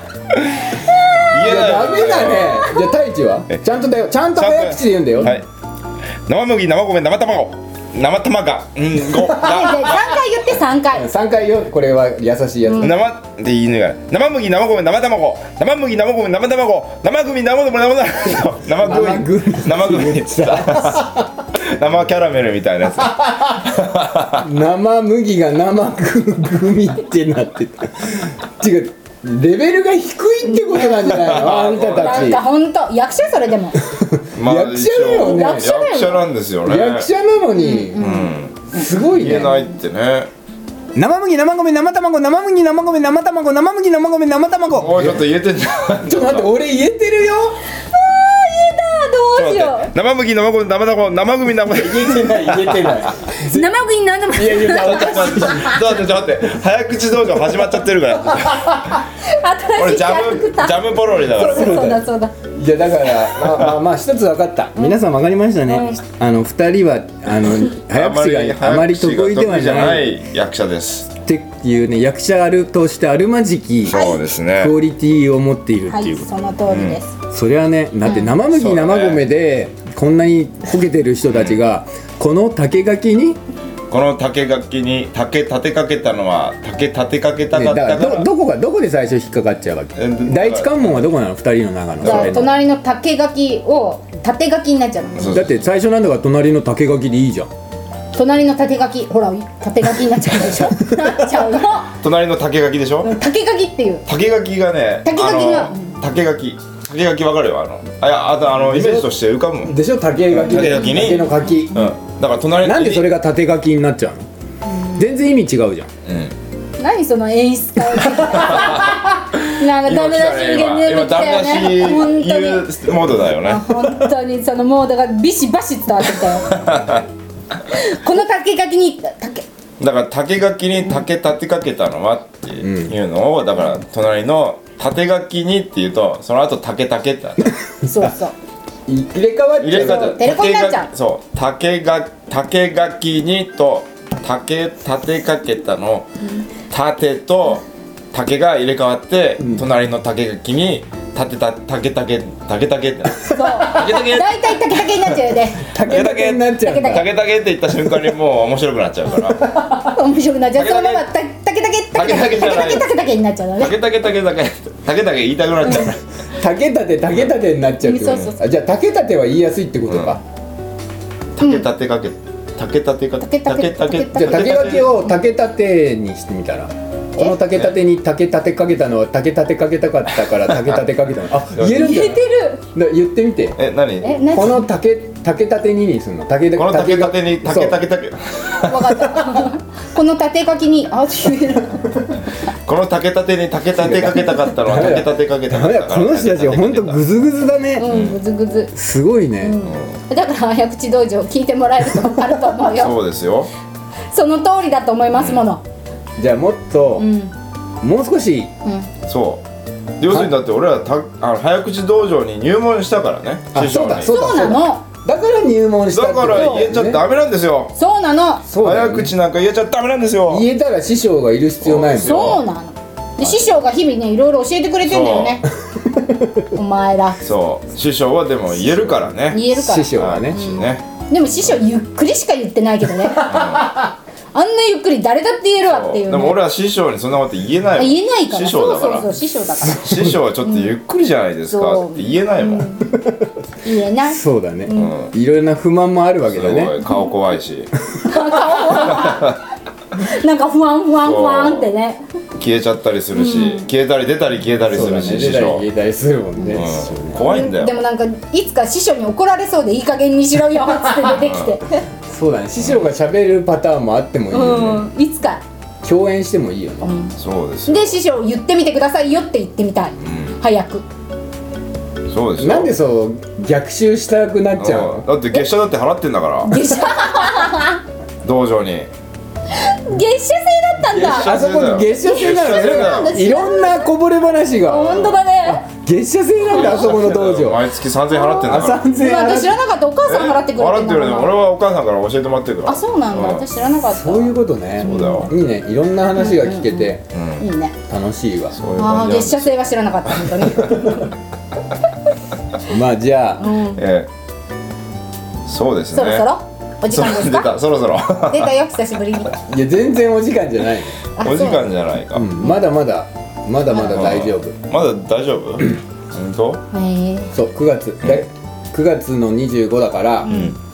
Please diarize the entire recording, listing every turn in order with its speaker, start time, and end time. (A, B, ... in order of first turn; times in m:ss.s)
0:00.9-0:01.3 A
0:01.3-0:02.7 B
0:01.4-0:05.4 C
0:04.4-0:05.5 B
0:06.3-0:10.2 B
0:09.2-0:09.5 C
0:09.3-0:11.1 A
0:10.9-0:13.0 C
0:12.7-0:12.9 A
0:12.8-0:24.4 B
0:18.8-0:21.4 C
0:23.0-0:23.7 C
0:24.3-0:32.4 C
0:30.4-0:33.8 A
0:31.1-0:32.4 B
0:33.8-0:35.7 C
0:34.4-0:37.1 B
0:35.1-0:36.2 A
0:36.6-0:38.1 C
0:37.6-0:38.9 A
0:38.0-0:40.3 B
0:38.7-0:39.7 C
0:41.0-0:45.3 C
0:44.8-0:46.5 B
0:46.0-0:47.6 C
0:47.8-0:49.9 A
0:49.4-0:53.1 B
0:51.7-0:53.7 C
0:53.4-0:55.8 A
0:54.3-0:55.8 C
0:54.7-0:59.0 B
0:59.2-1:02.3 A
0:59.8-1:01.9 B
1:01.4-1:10.2 C
1:03.4-1:03.7 B
1:05.7-1:06.0 A
1:07.8-1:11.1 B
1:11.3-1:16.3 C
1:13.9-1:14.8 B
1:13.9-1:14.2 A
1:15.9-1:17.2 A
1:16.7-1:17.0 B
1:17.3-1:23.4 C
1:18.0-1:18.3 A
1:18.5-1:19.2 B
1:21.3-1:21.6 B
1:23.9-1:28.3 B
1:27.5-1:32.5 C
1:30.0-1:30.9 B
1:32.0-1:32.5 B
1:32.0-1:35.4 A
1:35.2-1:35.5 B
1:35.3-1:37.5 C
1:38.1-1:41.9 A
1:42.0-1:43.2 B
1:43.0-1:44.0 A
1:44.1-1:49.8 B
1:45.0-1:45.9 A
1:48.7-1:49.1 C
1:49.6-1:51.8 C
1:50.3-1:53.1 B
1:50.5-1:51.2 A
1:52.6-1:54.3 C
1:54.7-1:55.1 A
1:55.0-1:55.9 C
1:56.1-1:56.3 B
1:56.8-2:06.6 A
1:58.3-2:03.8 B
2:06.4-2:07.1 B
2:07.7-2:09.4 A
2:09.8-2:17.5 B
2:12.6-2:13.0 C
2:17.8-2:18.3 A
2:17.8-2:18.1 C
2:18.9-2:20.2 C
2:19.6-2:26.1 B
2:19.8-2:20.9 A
2:26.2-2:26.5 A
2:26.7-2:34.6 B
2:29.4-2:29.7 C
2:33.3-2:35.6 A
2:33.4-2:34.0 C
2:35.6-2:37.1 C
2:35.8-2:39.5 B
2:36.6-2:37.0 A
2:39.3-2:39.9 C
2:39.8-2:43.7 A
2:40.6-2:41.1 B
2:41.9-2:42.9 B
2:43.6-2:46.0 B
2:46.4-2:50.2 C
2:47.8-2:48.4 A
2:49.9-2:50.2 B
2:51.4-2:54.9 B
2:51.4-2:51.7 A
2:53.2-2:54.6 A
2:54.2-3:03.6 C
2:57.5-2:57.8 B
3:00.5-3:00.8 B
3:01.6-3:01.9 B
3:01.6-3:02.6 A
3:03.6-3:04.2 B
3:04.0-3:04.7 A
3:04.3-3:07.8 C
3:06.5-3:08.9 B
3:08.6-3:12.1 A
3:12.7-3:17.0 B
3:13.8-3:17.9 C
3:17.8-3:18.7 A
3:17.9-3:18.2 B
3:18.7-3:19.6 C
3:19.4-3:23.0 A
3:19.6-3:20.0 B
3:22.8-3:23.5 B
3:24.1-3:25.6 A
3:25.2-3:25.4 B
3:26.2-3:27.1 C
3:27.0-3:27.3 A
3:27.8-3:28.5 C
3:29.1-3:29.4 B
3:30.0-3:34.1 B
3:33.5-3:37.0 C
3:34.0-3:34.8 A
3:35.9-3:37.8 B
3:37.8-3:38.5 A
3:38.5-3:39.1 C
3:38.6-3:40.5 B
3:40.3-3:42.4 C
3:41.6-3:42.4 B
3:42.0-3:45.5 A
3:44.8-3:45.4 B
3:45.8-3:46.4 C
3:46.5-3:47.2 A
3:47.2-3:50.8 B
3:49.3-3:53.6 A
3:49.4-3:50.4 C
3:53.2-3:53.8 B
3:54.3-3:56.4 A
3:55.7-3:59.1 B
3:57.8-3:59.8 A
3:59.7-4:02.7 B
3:59.8-4:00.1 C
4:00.4-4:00.7 A
4:01.5-4:02.8 A
4:02.9-4:03.3 C
4:03.6-4:04.9 A
4:04.1-4:06.7 C
4:04.7-4:05.1 B
4:06.3-4:07.7 B
4:08.0-4:09.4 A
4:08.7-4:09.4 B
4:10.0-4:12.0 A
4:11.0-4:11.7 B
4:12.4-4:15.7 B
4:13.2-4:13.7 A
4:14.6-4:17.3 C
4:16.5-4:17.8 B
4:17.2-4:21.8 A
4:21.1-4:21.6 B
4:22.1-4:24.8 C
4:24.3-4:25.4 A
4:25.8-4:26.9 C
4:26.8-4:27.2 A
4:27.2-4:28.0 B
4:27.7-4:30.8 A
4:30.0-4:30.4 B
4:32.1-4:32.7 B
4:32.4-4:35.1 C
4:34.6-4:36.7 B
4:36.4-4:37.8 A
4:38.2-4:38.9 B
4:39.5-4:41.4 A
4:40.9-4:43.2 B
4:41.0-4:47.7 C
4:41.9-4:43.9 A
4:44.6-4:45.6 A
4:46.5-4:48.8 B
4:46.5-4:46.9 A
4:48.1-4:51.4 A
4:48.4-4:49.6 C
4:50.0-4:53.5 B
4:52.7-4:55.3 A
4:53.8-4:57.0 C
4:54.8-4:55.3 B
4:56.2-4:57.8 A
4:57.1-4:57.4 B
4:57.9-4:58.6 C
4:58.6-4:59.5 B
4:58.8-5:01.2 A
5:00.1-5:00.8 B
5:02.7-5:03.5 C
5:03.4-5:03.8 A
5:03.8-5:04.1 B
5:05.5-5:06.3 B
5:05.9-5:07.5 A
5:06.9-5:08.5 B
5:08.3-5:09.4 A
5:09.4-5:11.0 C
5:11.2-5:11.7 A
5:11.2-5:12.3 B
5:12.1-5:14.6 C
5:13.8-5:16.6 B
5:16.7-5:17.3 A
5:17.3-5:20.4 C
5:20.2-5:20.6 A
5:20.3-5:20.6 B